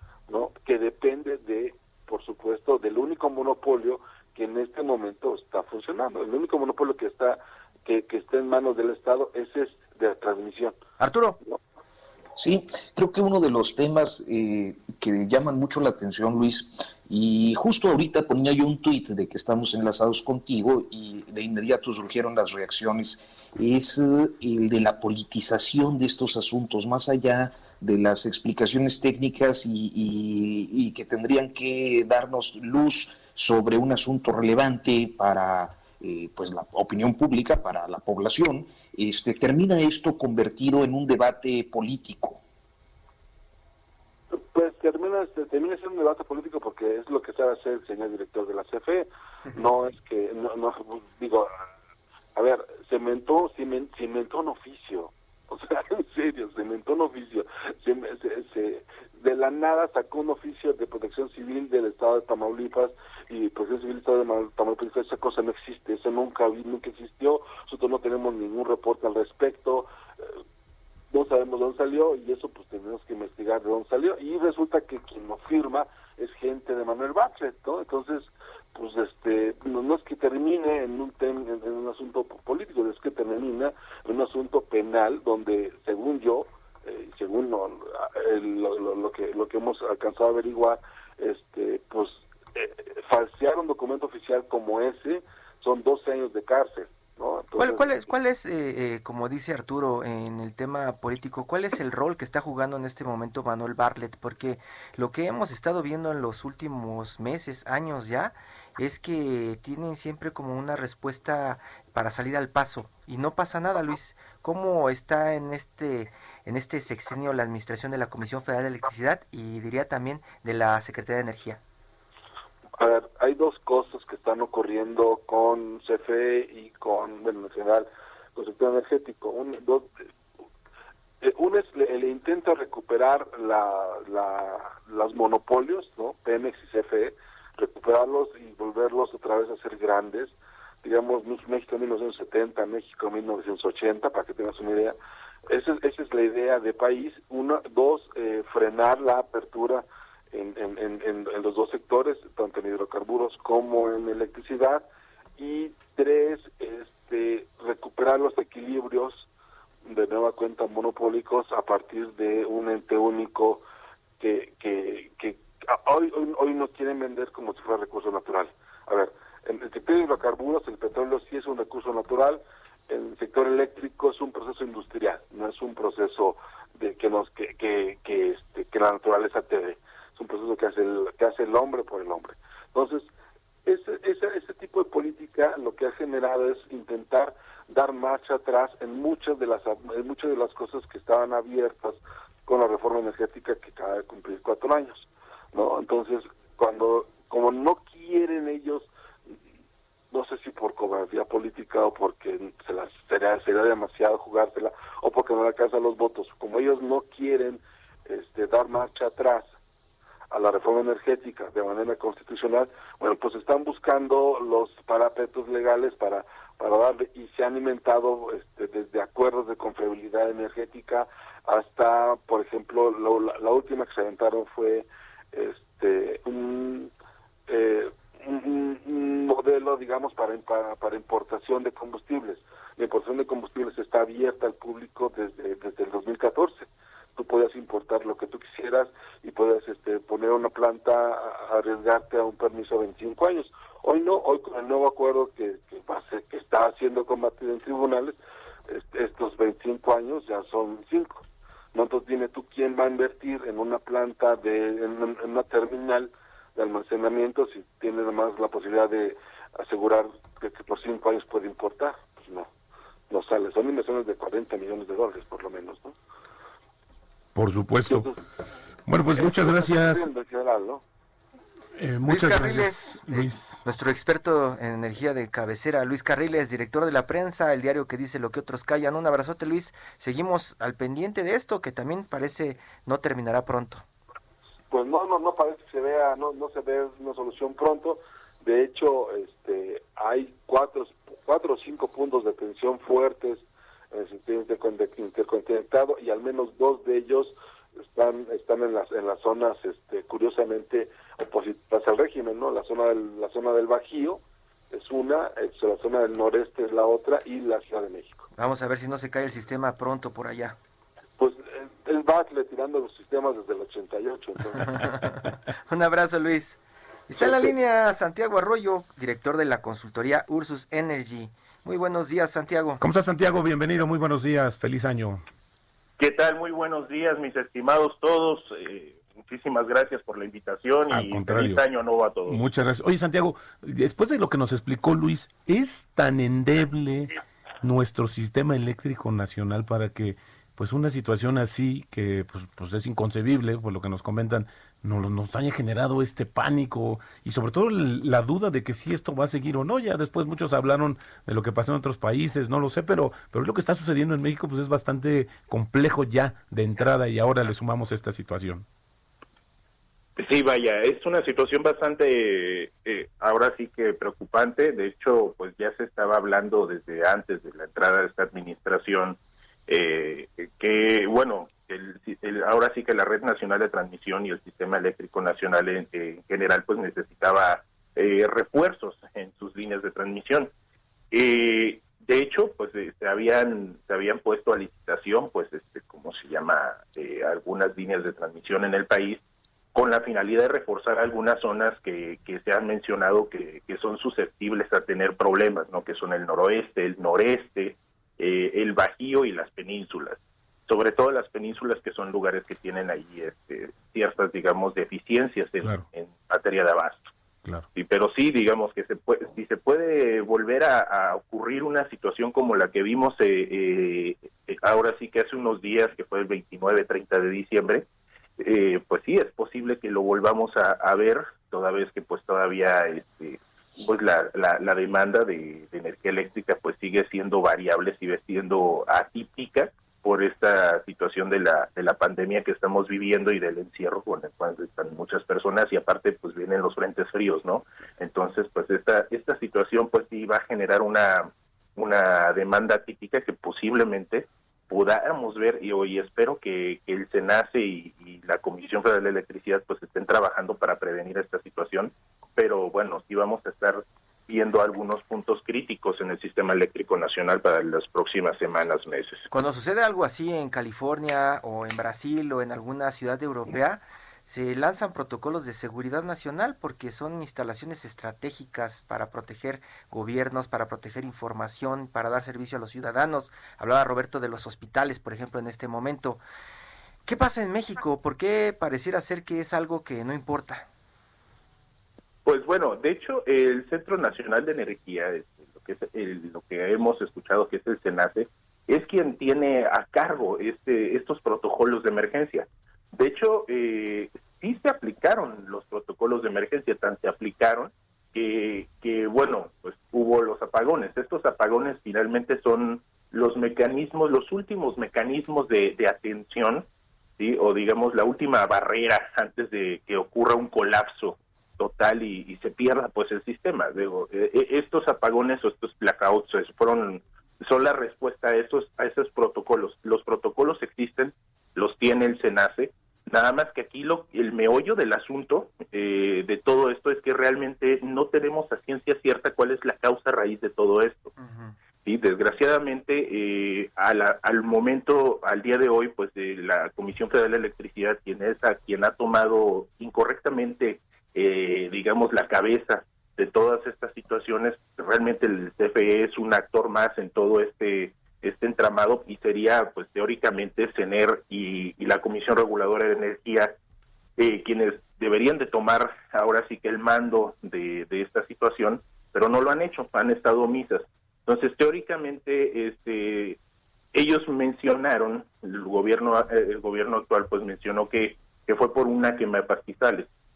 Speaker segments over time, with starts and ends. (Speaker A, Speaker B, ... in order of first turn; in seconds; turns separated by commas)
Speaker A: 0.3-10.8, Speaker B: 11.0-11.4, Speaker C: 12.4-42.4, Speaker A: 44.3-51.6, Speaker A: 52.4-70.4, Speaker A: 71.1-98.1, Speaker B: 97.5-121.6, Speaker A: 122.8-129.9, Speaker A: 131.2-145.0, Speaker A: 145.5-154.9, Speaker A: 155.4-159.3, Speaker A: 159.8-163.6, Speaker A: 164.2-183.1, Speaker A: 183.7-199.3, Speaker A: 200.1-209.5, Speaker A: 210.3-226.9, Speaker A: 227.5-248.2, Speaker A: 248.7-262.5, Speaker A: 263.1-266.0, Speaker D: 267.4-268.1, Speaker A: 267.9-268.2, Speaker D: 268.9-270.1, Speaker A: 269.1-270.8, Speaker D: 271.8-273.6, Speaker B: 272.1-283.8, Speaker A: 284.7-308.2, Speaker B: 308.4-310.6, Speaker A: 311.2-314.8, Speaker B: 314.6-322.8, Speaker A: 317.2-317.5, Speaker D: 322.8-325.2, Speaker E: 326.0-332.4, Speaker D: 330.9-331.6, Speaker D: 332.3-358.6, Speaker E: 360.2-380.5, Speaker E: 381.1-389.2, Speaker E: 389.8-407.1, Speaker E: 407.8-417.9, Speaker E: 418.4-459.3, Speaker B: 459.3-476.2, Speaker B: 477.1-480.6, Speaker E: 482.2-506.7, Speaker E: 507.2-531.1, Speaker B: 531.2-531.6, Speaker E: 531.9-553.5, Speaker E: 554.2-563.4, Speaker E: 563.9-570.1